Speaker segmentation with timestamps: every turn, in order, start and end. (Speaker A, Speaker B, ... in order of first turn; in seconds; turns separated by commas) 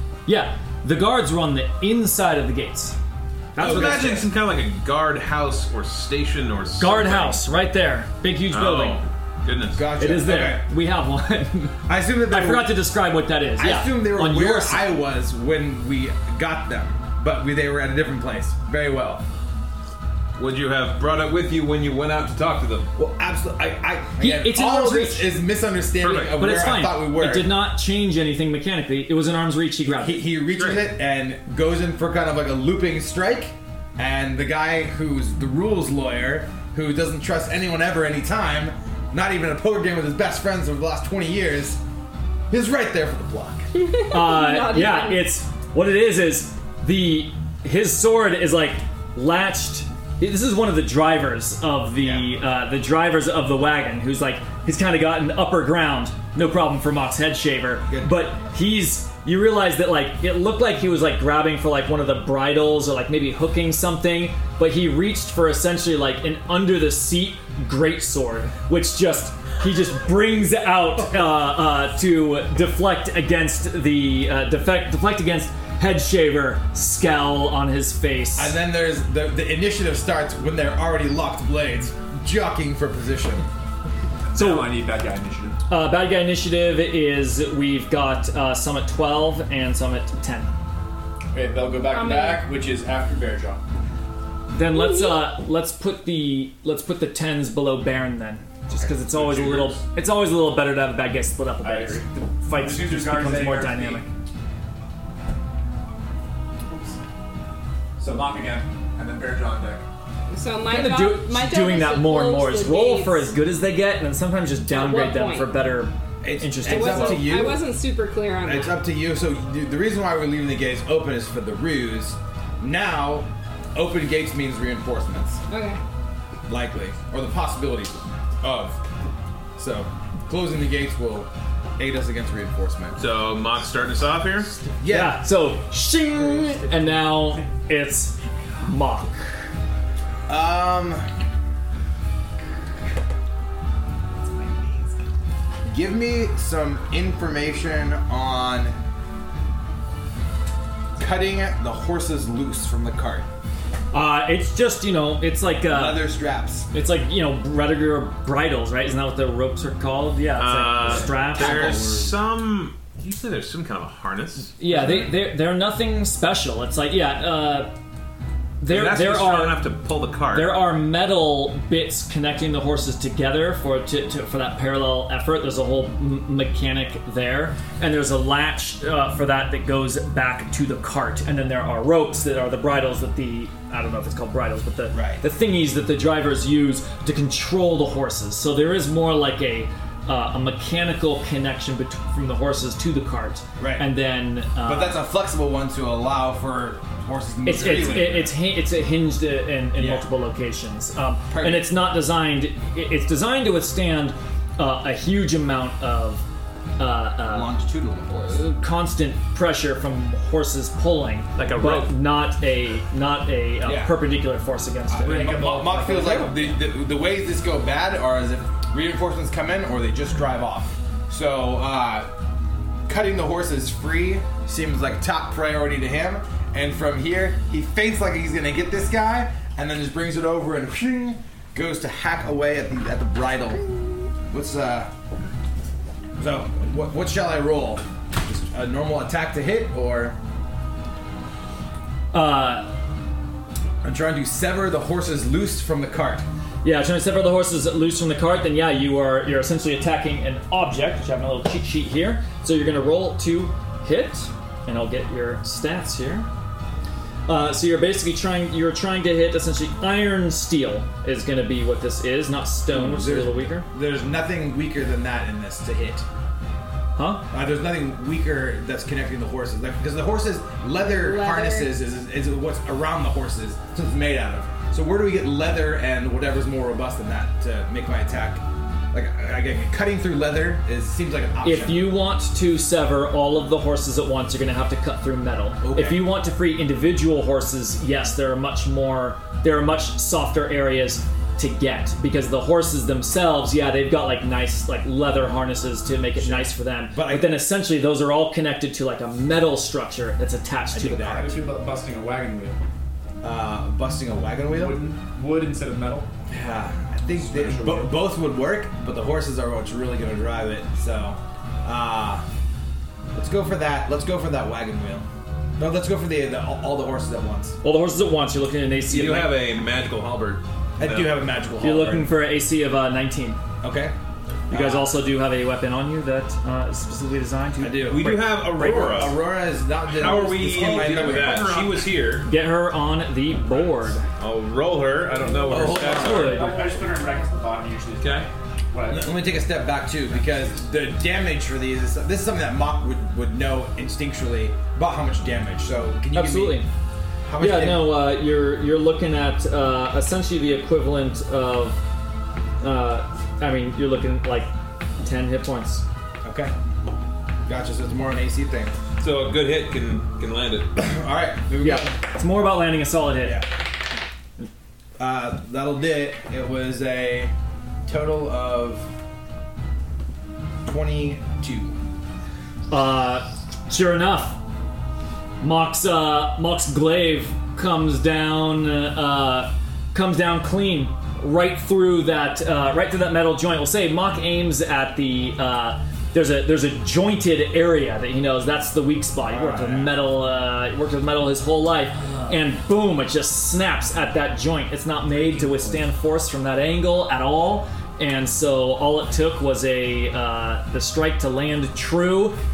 Speaker A: 0.2-3.0, Speaker A: 3.5-4.2, Speaker B: 3.6-7.4, Speaker C: 3.6-4.3, Speaker A: 6.8-9.0, Speaker B: 8.5-9.8, Speaker C: 9.7-10.7, Speaker A: 9.9-15.0, Speaker C: 11.9-12.8, Speaker C: 13.6-19.2, Speaker B: 20.4-22.9, Speaker C: 22.9-27.6, Speaker A: 24.2-25.3, Speaker B: 26.0-26.4, Speaker A: 26.3-30.4, Speaker C: 30.0-41.8, Speaker B: 30.5-30.9, Speaker C: 42.5-43.6, Speaker D: 43.7-45.2, Speaker A: 44.1-78.6, Speaker C: 52.0-52.4, Speaker C: 57.9-58.3, Speaker C: 78.3-83.5, Speaker E: 84.3-85.6, Speaker A: 84.3-84.8, Speaker A: 85.7-90.5, Speaker E: 91.3-93.6, Speaker D: 91.8-92.5, Speaker A: 94.5-104.1, Speaker D: 94.7-95.2, Speaker E: 101.6-104.1, Speaker E: 106.7-107.0, Speaker E: 108.0-109.8, Speaker D: 110.3-113.4, Speaker A: 110.6-117.4, Speaker D: 114.7-115.5, Speaker C: 116.2-117.6, Speaker D: 116.6-118.8, Speaker C: 118.4-125.4, Speaker D: 125.5-125.8, Speaker C: 126.5-128.8, Speaker C: 129.6-133.0, Speaker B: 132.9-134.6, Speaker C: 134.8-135.2, Speaker A: 134.9-139.2, Speaker E: 136.1-137.4, Speaker C: 140.3-141.0, Speaker C: 145.7-148.7, Speaker C: 151.0-153.2, Speaker A: 153.9-156.1, Speaker C: 155.7-156.7, Speaker A: 156.7-161.8, Speaker B: 160.3-164.6, Speaker C: 161.3-162.1, Speaker A: 164.6-167.7, Speaker A: 168.6-169.7, Speaker B: 168.7-170.7, Speaker A: 170.3-195.0, Speaker C: 184.9-185.2, Speaker C: 193.6-193.9, Speaker C: 194.6-198.4, Speaker A: 197.4-206.2, Speaker C: 199.8-200.1, Speaker C: 201.3-201.7, Speaker A: 206.8-207.5, Speaker C: 207.2-208.4, Speaker A: 208.2-215.5, Speaker B: 211.3-211.9, Speaker C: 213.6-214.0, Speaker E: 214.9-216.5, Speaker C: 215.1-222.1, Speaker C: 222.9-233.7, Speaker C: 234.2-234.9, Speaker C: 236.2-240.2, Speaker A: 242.1-242.7, Speaker C: 243.8-246.2, Speaker A: 246.6-256.3, Speaker A: 257.3-263.7, Speaker C: 262.7-266.1, Speaker A: 267.0-267.2, Speaker C: 267.3-281.9, Speaker D: 270.8-271.7, Speaker A: 281.4-301.3, Speaker C: 285.6-286.1, Speaker C: 296.2-297.4, Speaker C: 300.7-301.4, Speaker E: 301.1-302.6, Speaker C: 303.2-304.8, Speaker E: 304.4-306.1, Speaker C: 306.3-312.2, Speaker E: 307.2-307.9, Speaker C: 313.1-315.1, Speaker C: 315.6-317.6, Speaker A: 317.6-319.4, Speaker B: 318.9-321.2, Speaker C: 320.8-322.1, Speaker A: 321.6-323.4, Speaker C: 323.6-323.9, Speaker C: 324.5-324.9, Speaker A: 324.5-329.1, Speaker C: 327.6-331.7, Speaker B: 327.9-329.2, Speaker B: 329.9-332.3, Speaker E: 330.0-331.7, Speaker A: 332.2-334.0, Speaker B: 334.2-336.4, Speaker E: 335.4-339.2, Speaker C: 335.5-336.4, Speaker A: 335.7-336.7, Speaker B: 338.0-338.3, Speaker C: 338.9-346.7, Speaker E: 340.1-340.6, Speaker A: 346.1-346.7, Speaker C: 347.2-348.0, Speaker A: 347.4-351.8, Speaker A: 352.6-355.8, Speaker C: 356.2-356.5, Speaker C: 357.4-358.7, Speaker B: 359.0-360.7, Speaker C: 360.8-361.9, Speaker A: 361.6-363.4, Speaker C: 363.2-363.5, Speaker C: 365.0-367.3, Speaker C: 367.9-368.9, Speaker C: 370.6-371.7, Speaker A: 372.7-374.4, Speaker A: 375.4-402.4, Speaker C: 389.2-390.0, Speaker E: 395.1-395.9